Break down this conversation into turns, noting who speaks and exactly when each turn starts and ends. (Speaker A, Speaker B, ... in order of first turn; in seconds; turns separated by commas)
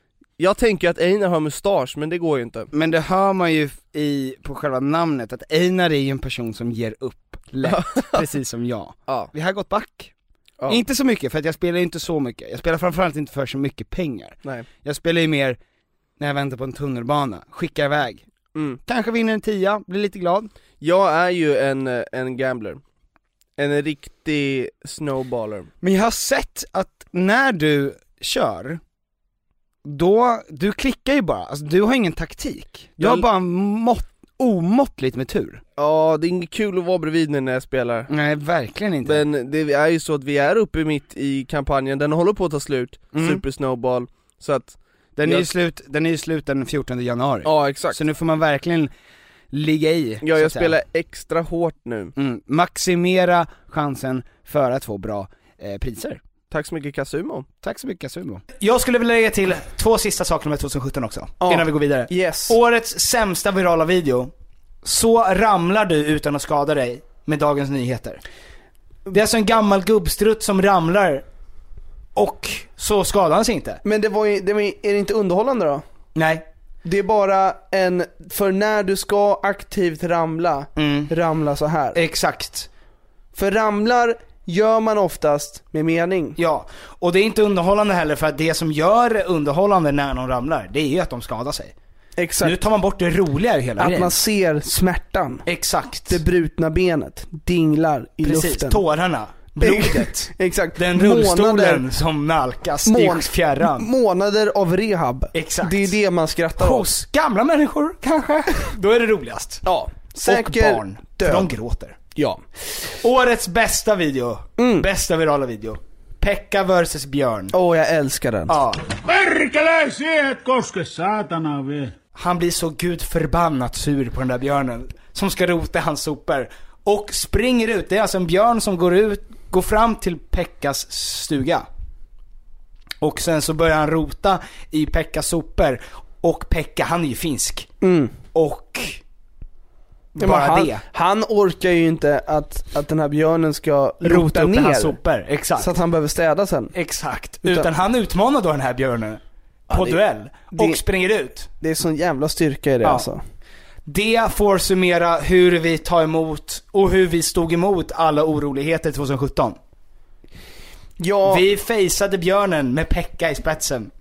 Speaker A: 0.4-2.7, Speaker B: 2.7-10.1, Speaker A: 7.6-8.2, Speaker A: 10.6-10.8, Speaker B: 10.7-15.6, Speaker B: 16.2-18.2, Speaker A: 18.5-18.8, Speaker B: 18.9-20.5, Speaker A: 20.8-22.8, Speaker A: 23.6-25.7, Speaker B: 25.8-28.8, Speaker B: 29.8-35.6, Speaker A: 33.0-33.3, Speaker A: 35.8-38.1, Speaker B: 38.1-39.2, Speaker A: 39.0-45.5, Speaker B: 43.1-43.4, Speaker B: 45.1-48.9, Speaker A: 47.4-48.0, Speaker B: 49.5-50.7, Speaker A: 50.2-52.1, Speaker B: 52.1-56.2, Speaker A: 56.5-57.5, Speaker B: 57.6-64.3, Speaker A: 61.4-62.6, Speaker B: 64.8-68.2, Speaker B: 69.1-71.2, Speaker B: 72.2-73.8, Speaker A: 73.8-75.8, Speaker B: 76.2-76.4, Speaker A: 76.8-82.0, Speaker B: 80.8-81.1, Speaker B: 81.9-82.7, Speaker A: 83.3-86.4, Speaker B: 86.4-91.7, Speaker A: 92.2-92.6, Speaker B: 92.4-94.2, Speaker A: 93.8-95.5, Speaker B: 95.5-96.2, Speaker A: 96.1-98.8, Speaker B: 98.2-103.9, Speaker A: 99.6-101.8, Speaker A: 102.9-106.9, Speaker B: 105.3-105.9, Speaker B: 106.6-109.6, Speaker A: 109.6-111.5, Speaker B: 110.2-112.0, Speaker A: 112.1-112.4, Speaker B: 113.0-117.5, Speaker A: 114.6-114.9, Speaker A: 117.5-118.5, Speaker B: 118.5-118.8, Speaker C: 119.0-122.0, Speaker B: 122.2-131.7, Speaker B: 133.0-137.7, Speaker A: 137.8-138.2, Speaker B: 138.3-139.0, Speaker B: 140.1-140.8, Speaker A: 140.2-145.0, Speaker B: 144.0-145.7, Speaker A: 145.6-146.7, Speaker B: 146.7-151.5, Speaker A: 147.4-147.7, Speaker A: 149.7-150.0, Speaker A: 150.5-150.8, Speaker A: 151.6-153.2, Speaker B: 152.8-153.1, Speaker B: 153.9-159.6, Speaker A: 161.0-161.4, Speaker B: 161.3-163.9